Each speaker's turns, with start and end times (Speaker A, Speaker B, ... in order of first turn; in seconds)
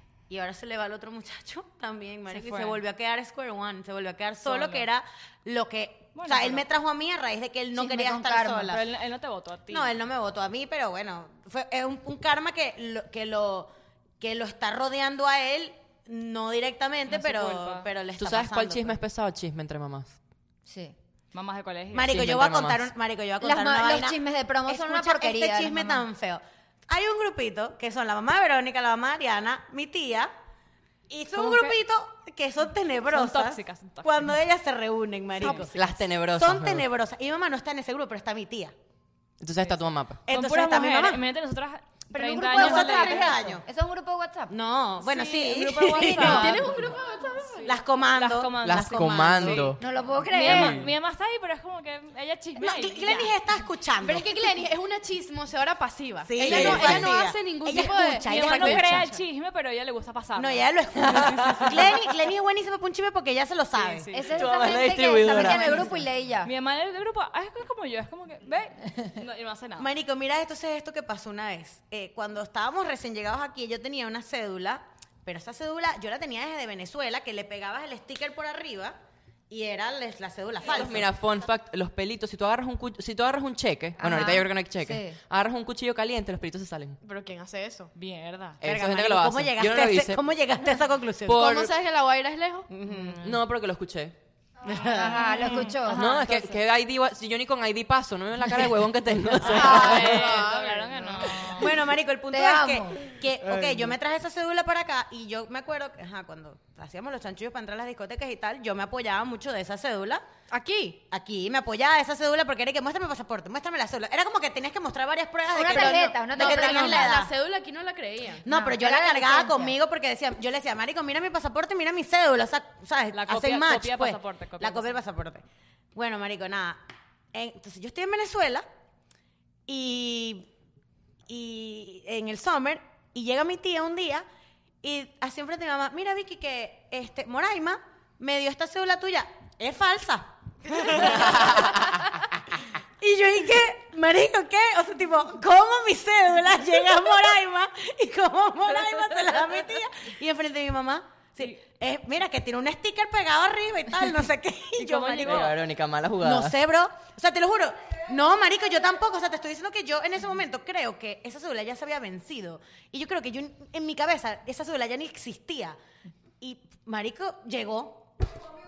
Speaker A: 0.3-8.8, 9.7-19.0, 21.9-30.3, 31.1-35.7, 36.3-38.7, 40.2-41.2, 42.5-43.7, 44.5-46.6, 47.7-49.8, 52.6-54.3, 56.3-59.2, 60.4-64.1, 69.8-79.0, 79.5-81.1, 88.6-91.4, 92.7-93.2, 94.6-95.4, 101.5-110.2, 111.1-117.3, 118.4-126.8, 127.3-128.7, 129.7-130.5, 131.3-134.2, 134.8-141.9, 143.0-155.5, 156.2-165.8, 166.4-168.1
Speaker B: 2.3-2.8, 4.4-4.9, 6.2-6.7, 8.7-10.0, 17.1-17.9, 21.3-22.1, 31.3-31.8, 33.1-34.4, 40.3-43.4, 45.0-53.4, 58.2-62.0, 63.8-64.5, 65.3-65.8, 66.4-69.9, 88.0-88.6, 92.9-93.4, 95.0-96.6, 99.4-101.8, 123.1-125.0, 154.8-155.6
Speaker C: 7.7-8.8, 20.7-20.9, 23.4-26.0, 42.1-44.5, 49.8-50.9, 64.1-66.5, 84.0-85.2, 94.8-96.1, 102.3-103.1, 115.5-117.3, 118.5-119.8
Speaker D: 18.2-20.2, 22.1-22.9, 35.4-36.9, 39.4-40.2, 48.6-49.8, 50.4-50.9, 56.5-57.0, 61.0-61.7, 64.3-65.8, 80.7-87.0, 88.6-90.2, 91.2-91.8, 93.2-94.2, 95.8-100.2, 155.2-156.6
Speaker E: 46.0-47.7, 54.0-59.0, 87.0-87.9, 91.3-92.7, 99.5-101.7, 110.5-111.0, 115.7-118.5